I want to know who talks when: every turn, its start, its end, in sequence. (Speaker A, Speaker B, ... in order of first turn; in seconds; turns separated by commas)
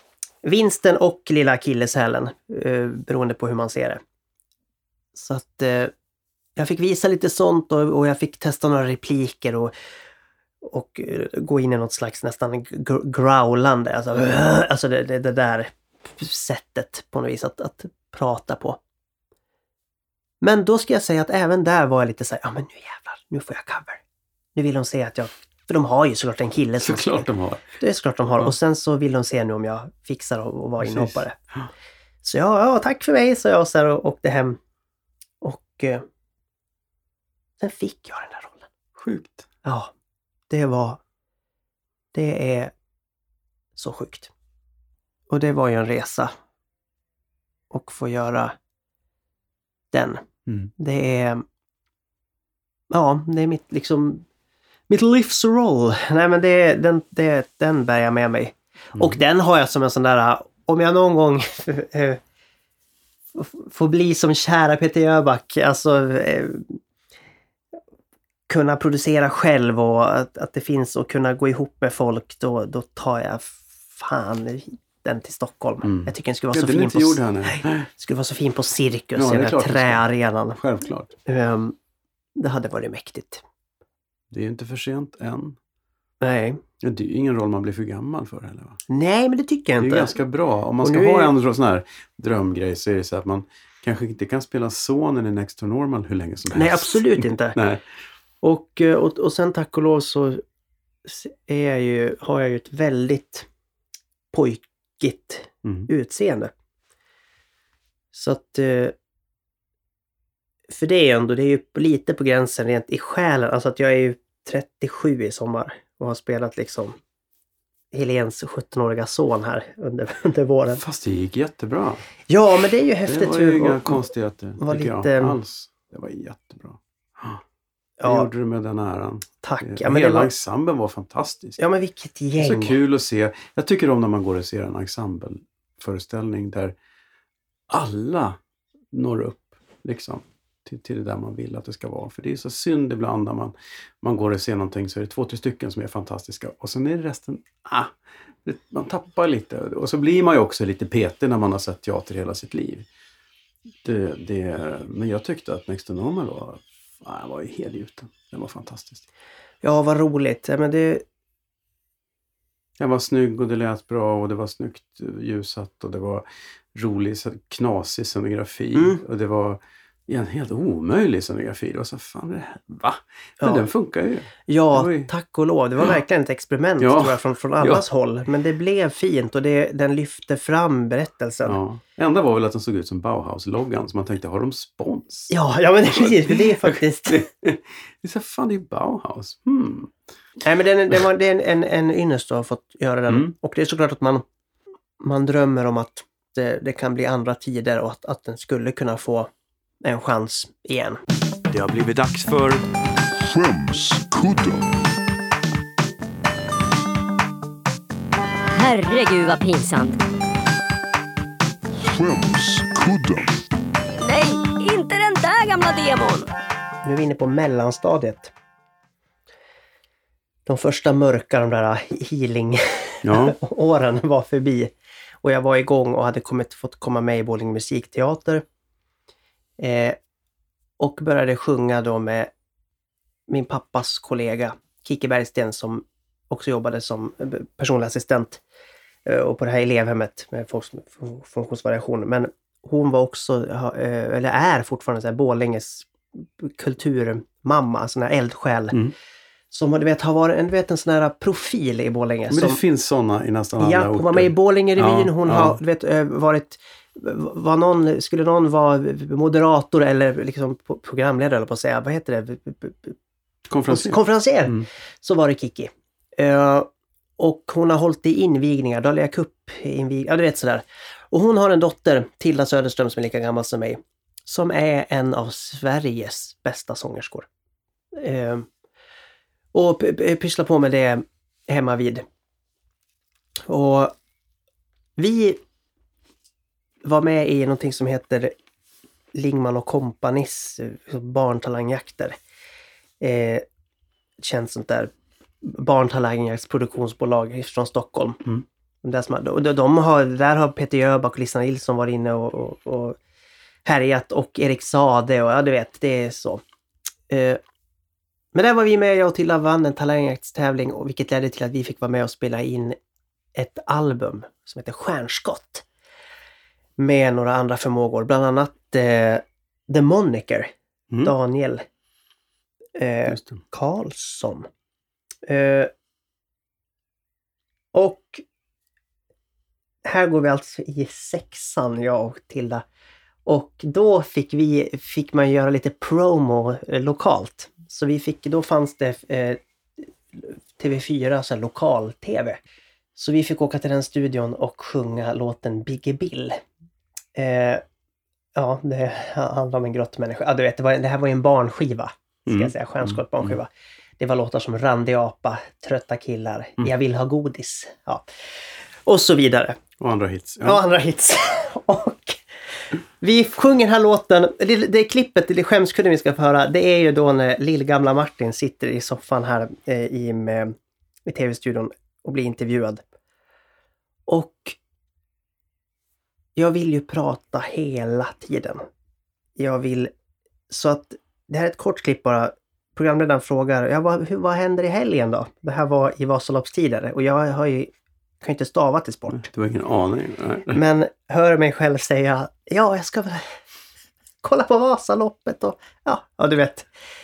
Speaker A: 0.4-4.0, Speaker A: 5.2-5.9, Speaker A: 6.6-9.7, Speaker A: 10.6-18.8, Speaker A: 20.4-24.0, Speaker A: 24.6-27.3, Speaker B: 26.8-27.7, Speaker A: 27.8-31.4, Speaker B: 30.8-31.7, Speaker A: 32.2-34.6, Speaker A: 35.4-36.1, Speaker A: 37.6-38.7, Speaker B: 39.0-39.5, Speaker A: 39.6-39.9, Speaker A: 40.5-41.0, Speaker A: 42.1-42.7, Speaker A: 43.8-44.3, Speaker A: 45.3-46.3, Speaker A: 47.7-48.6, Speaker A: 49.9-50.2, Speaker A: 50.8-51.5, Speaker A: 52.9-54.2, Speaker A: 54.9-62.2, Speaker A: 63.4-66.8, Speaker A: 68.5-80.6, Speaker B: 75.8-77.9, Speaker B: 79.2-80.0, Speaker B: 80.6-81.1, Speaker A: 81.3-81.8, Speaker A: 82.4-83.4, Speaker B: 84.3-85.6, Speaker A: 86.2-86.6, Speaker B: 86.8-88.8, Speaker A: 88.9-90.2, Speaker B: 89.8-97.8, Speaker A: 90.8-91.3, Speaker A: 96.5-97.6, Speaker A: 98.4-100.4, Speaker A: 101.0-103.5, Speaker A: 104.3-106.5, Speaker B: 105.6-105.9, Speaker A: 108.1-108.9, Speaker A: 110.7-117.0, Speaker A: 117.9-120.8, Speaker B: 120.7-122.0, Speaker A: 122.3-124.1, Speaker B: 123.0-127.4, Speaker A: 124.6-125.4, Speaker A: 128.0-128.3, Speaker B: 128.0-131.6, Speaker A: 129.4-130.3, Speaker A: 131.6-132.8, Speaker B: 132.4-136.8, Speaker B: 137.7-138.4, Speaker B: 138.9-152.9, Speaker B: 153.8-159.1, Speaker A: 159.6-161.0, Speaker B: 162.8-175.1, Speaker A: 168.8-169.0, Speaker A: 174.5-181.6, Speaker B: 176.8-177.8, Speaker B: 181.4-185.3, Speaker A: 185.3-187.3, Speaker B: 185.9-189.9, Speaker A: 190.4-194.2, Speaker B: 193.1-193.3, Speaker A: 195.0-199.3, Speaker A: 199.8-201.0, Speaker B: 201.5-202.7, Speaker C: 203.2-204.7, Speaker D: 208.5-210.0, Speaker C: 211.8-213.4, Speaker D: 214.0-216.3, Speaker A: 216.8-218.3, Speaker A: 220.5-224.7, Speaker B: 223.0-223.4, Speaker A: 225.2-228.4, Speaker A: 229.6-230.0, Speaker A: 230.8-232.3, Speaker A: 233.3-238.4, Speaker A: 239.1-248.8, Speaker A: 249.5-252.6, Speaker B: 252.3-255.6, Speaker A: 253.6-263.0, Speaker B: 263.5-264.7, Speaker A: 263.7-277.3, Speaker A: 278.0-278.5, Speaker A: 279.5-282.1, Speaker A: 283.5-283.9, Speaker A: 285.0-285.4, Speaker A: 286.8-288.3, Speaker A: 289.1-292.2, Speaker A: 293.0-293.5, Speaker A: 294.2-294.9, Speaker A: 295.4-298.2, Speaker A: 298.8-303.0, Speaker A: 303.6-306.4, Speaker A: 307.1-307.4, Speaker A: 308.3-312.8, Speaker A: 313.4-315.6, Speaker A: 316.8-321.6, Speaker A: 322.8-324.5, Speaker B: 323.1-323.4, Speaker A: 325.3-325.7, Speaker A: 327.7-328.2, Speaker A: 329.9-332.6, Speaker A: 333.3-339.4, Speaker A: 340.1-342.4, Speaker A: 343.0-346.4, Speaker A: 347.1-347.6, Speaker A: 348.4-358.1, Speaker B: 352.3-353.4, Speaker A: 358.9-359.6, Speaker B: 359.8-360.6, Speaker A: 360.4-362.2, Speaker A: 363.0-372.8, Speaker A: 374.1-374.6, Speaker A: 376.4-378.6, Speaker A: 379.4-379.9, Speaker A: 380.5-389.3, Speaker B: 389.1-390.6, Speaker A: 390.5-393.4, Speaker A: 394.2-396.7